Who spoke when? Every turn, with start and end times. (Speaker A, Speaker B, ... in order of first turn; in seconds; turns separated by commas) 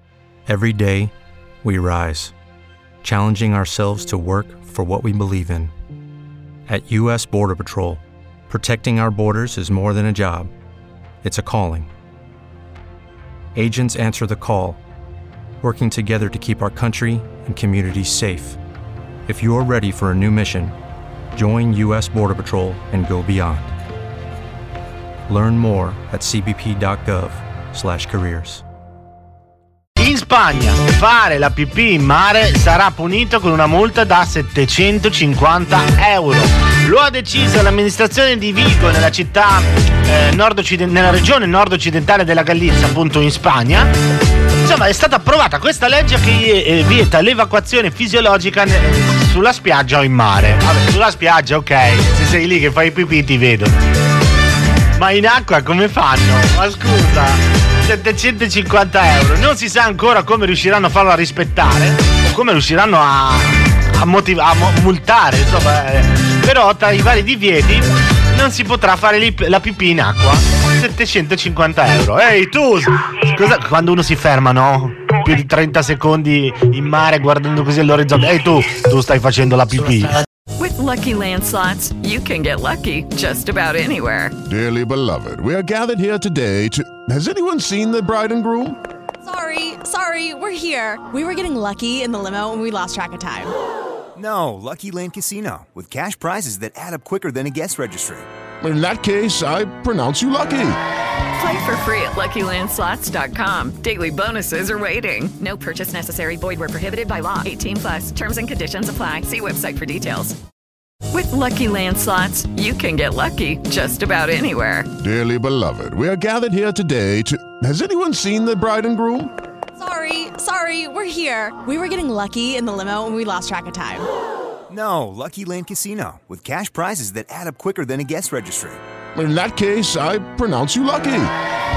Speaker A: 0.5-1.1, Speaker A: 1.6-2.3, Speaker A: 3.0-5.7, Speaker A: 6.7-10.5, Speaker A: 11.2-11.9, Speaker A: 13.6-14.8, Speaker A: 15.6-18.6, Speaker A: 19.2-20.7, Speaker A: 21.3-23.7, Speaker A: 25.3-28.6, Speaker B: 30.0-43.9, Speaker B: 44.6-53.8, Speaker B: 55.0-80.1, Speaker C: 80.6-84.3, Speaker D: 84.5-88.8, Speaker E: 89.2-93.5, Speaker F: 94.2-98.3, Speaker D: 98.6-100.8, Speaker C: 101.4-110.3, Speaker C: 111.1-114.9, Speaker D: 115.0-119.3, Speaker E: 119.8-124.1, Speaker F: 124.7-128.8, Speaker D: 129.2-131.3